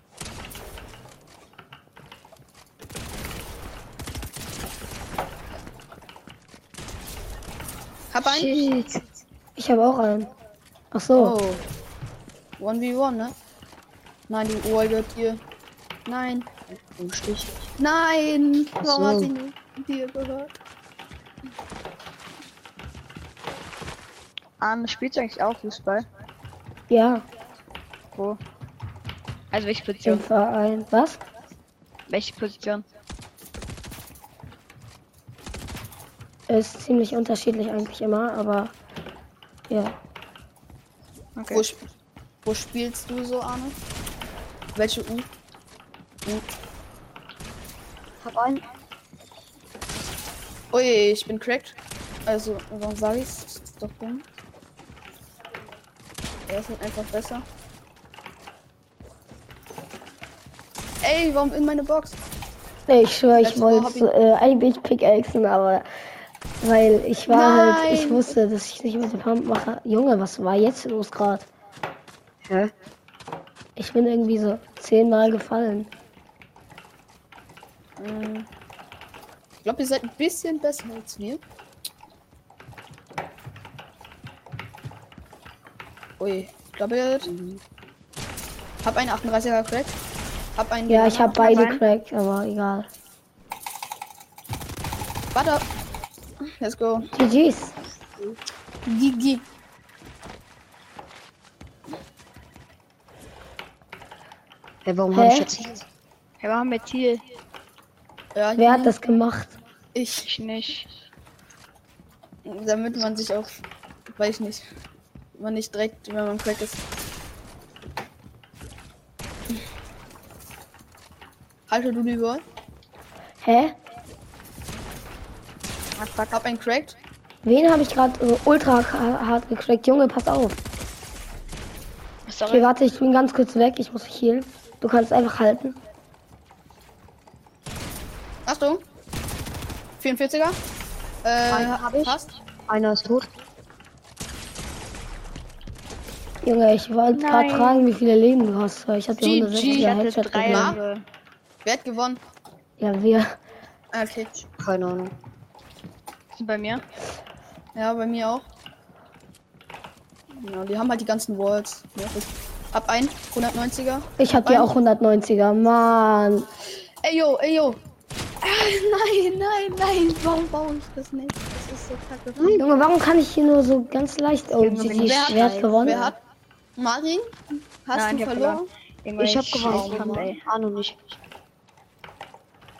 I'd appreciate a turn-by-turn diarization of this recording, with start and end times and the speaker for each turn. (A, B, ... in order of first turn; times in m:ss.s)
0:08.1-0:08.7 A
0:08.2-0:09.0 B
0:09.6-0:10.3 C
0:10.9-0:11.4 C
0:11.2-0:11.6 A
0:12.6-0:13.3 A
0:14.3-0:15.4 A
0:16.0-0:16.5 A
0:16.7-0:17.7 B
0:17.8-0:20.5 A
0:18.8-0:19.3 B
0:24.6-0:26.0 D
0:26.9-0:27.2 C
0:28.1-0:28.4 D
0:29.5-0:30.2 D
0:30.0-0:31.2 C
0:32.1-0:32.8 D
0:36.5-0:38.7 C
0:39.7-0:40.0 C
0:41.4-0:41.6 D
0:41.5-0:41.9 A
0:42.4-0:43.8 A
0:44.7-0:45.3 A
0:48.2-0:48.6 B
0:50.7-0:51.7 A
0:52.2-0:54.2 A
0:56.5-0:57.4 A
1:01.0-1:02.2 A
1:02.9-1:05.9 C
1:03.3-1:04.1 A
1:06.6-1:11.5 C
1:07.3-1:08.4 A
1:12.4-1:12.7 B
1:13.8-1:15.9 C
1:18.0-1:18.5 A
1:19.6-1:21.4 A
1:26.2-1:27.3 A
1:27.2-1:27.6 B
1:28.8-1:29.9 A
1:30.6-1:31.8 A
1:30.9-1:32.9 C
1:31.4-1:31.8 D
1:35.3-1:35.7 A
1:36.6-1:37.1 A
1:37.1-1:37.7 C
1:38.8-1:39.4 A
1:44.8-1:45.8 B
1:45.1-1:45.5 C
1:46.4-1:47.2 D
1:48.3-1:48.9 A
1:48.6-1:49.5 C
1:49.9-1:50.3 A
1:50.2-1:50.9 D
1:52.4-1:53.6 A
1:54.1-1:54.7 A
1:55.4-1:56.8 A
2:01.7-2:02.4 A
2:03.4-2:03.8 C
2:06.0-2:06.4 D
2:06.3-2:07.0 A
2:07.4-2:10.6 C
2:12.3-2:12.7 D
2:12.5-2:15.8 C
2:18.4-2:18.8 A
2:20.0-2:20.6 A
2:21.2-2:22.4 A
2:21.5-2:23.3 B
2:26.4-2:30.8 C
2:27.1-2:27.9 D
2:29.2-2:30.8 A
2:29.6-2:31.0 D
2:31.6-2:32.2 A
2:32.8-2:33.4 C
2:33.9-2:34.3 A
2:34.6-2:35.1 B
2:36.3-2:36.8 D
2:37.7-2:38.4 A
2:40.3-2:44.7 A
2:44.2-2:46.5 C
2:47.0-2:47.8 A
2:48.4-2:52.6 A
2:52.4-2:52.6 B
2:52.6-2:56.1 C
2:54.6-2:56.0 B
2:54.9-2:56.2 A
2:56.8-2:58.7 A
2:57.9-3:00.4 D
2:59.2-3:01.1 B
2:59.6-3:00.3 A